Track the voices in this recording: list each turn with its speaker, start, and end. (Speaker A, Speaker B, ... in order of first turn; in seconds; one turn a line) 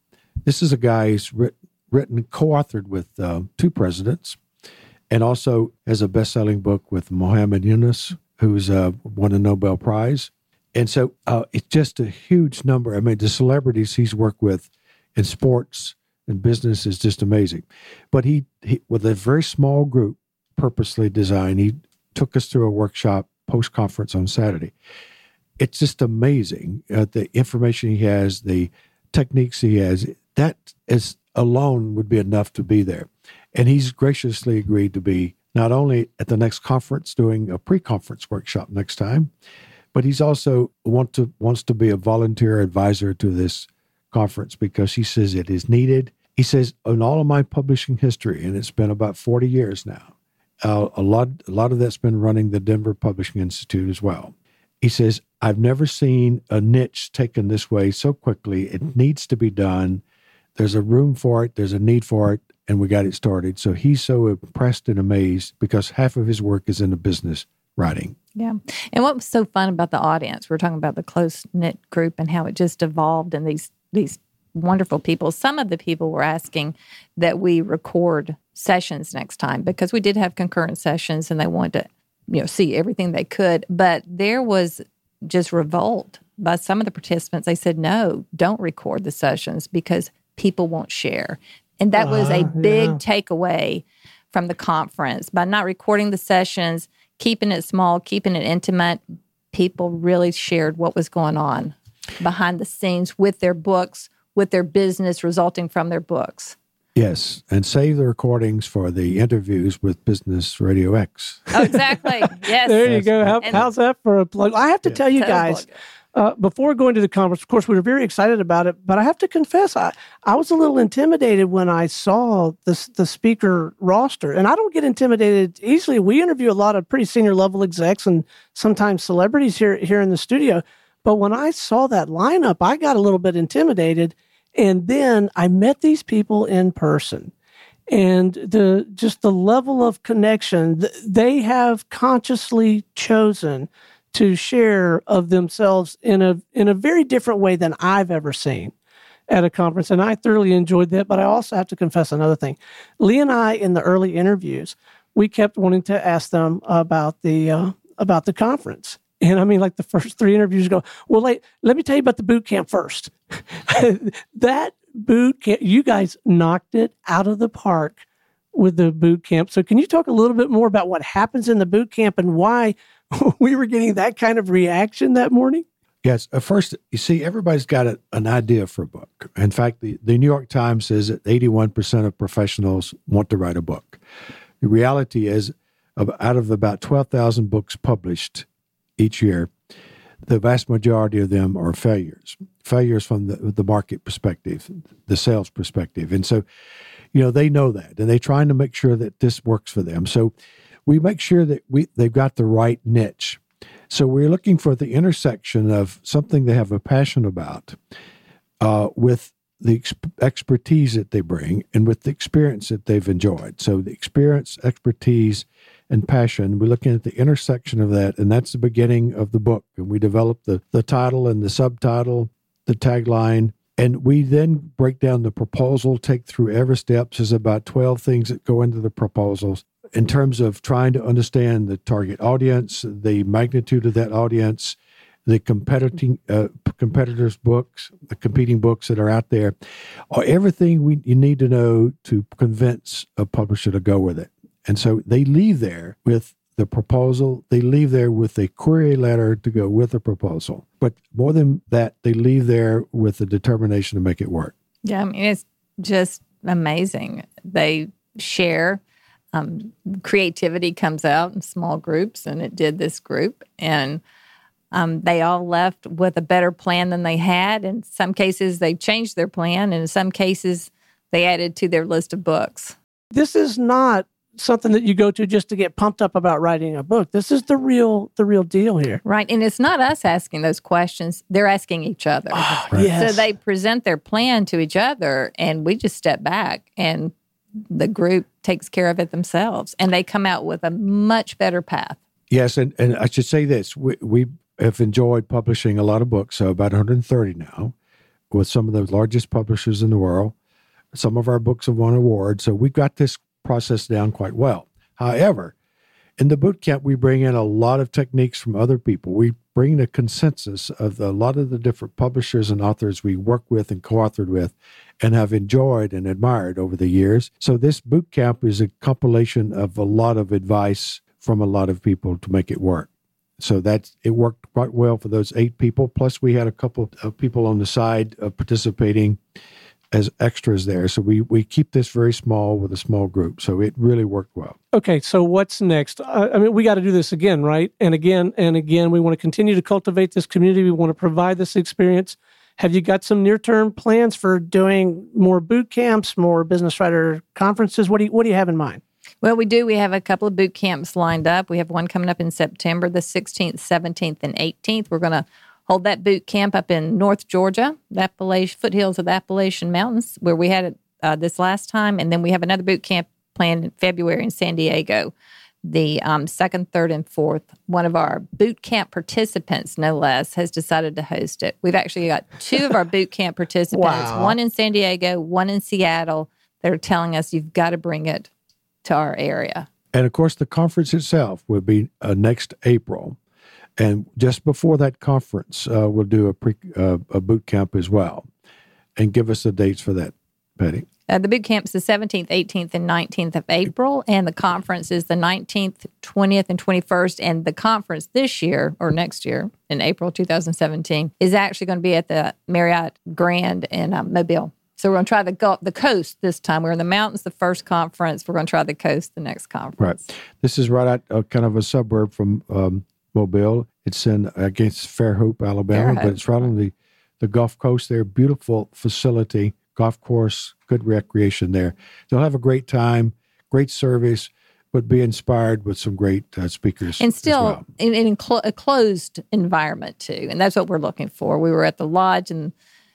Speaker A: 0.5-4.4
Speaker A: 5.1-24.7
Speaker A: 25.6-39.3
Speaker A: 39.9-50.1
Speaker A: 50.6-60.0
Speaker A: 60.6-68.2
Speaker B: 68.4-99.0
Speaker C: 92.0-93.0
Speaker B: 99.5-106.6
Speaker A: 107.0-111.8
Speaker B: 111.5-113.6
Speaker C: 112.6-137.3
Speaker A: 112.8-113.7
Speaker B: 115.2-115.8
Speaker C: 137.9-148.7
Speaker C: 149.3-168.0
Speaker C: 168.5-175.6
Speaker A: 176.0-184.0
Speaker A: 184.6-188.5
Speaker A: 189.0-189.5
Speaker A: 190.2-196.4
Speaker A: 197.1-200.3
Speaker A: 200.9-207.8
Speaker A: 208.6-239.6
Speaker A: 240.1-254.5
Speaker B: 254.8-258.8
Speaker B: 259.3-264.0
Speaker B: 264.7-272.8
Speaker C: 273.1-279.0
Speaker B: 279.0-287.1
Speaker C: 282.3-283.3
Speaker B: 287.7-292.0
Speaker A: 292.3-297.8
Speaker A: 298.3-300.4
Speaker A: 300.9-305.5
Speaker A: 306.2-329.2
Speaker A: 329.9-334.6
Speaker C: 334.7-348.8
Speaker B: 349.2-365.1
Speaker B: 365.6-378.3
Speaker C: 373.7-374.4
Speaker B: 378.8-379.7
Speaker A: 379.9-383.2
Speaker A: 383.8-388.3
Speaker A: 389.0-390.9
Speaker B: 391.1-410.1
Speaker A: 409.8-427.6
Speaker B: 415.7-416.5
Speaker B: 427.0-432.5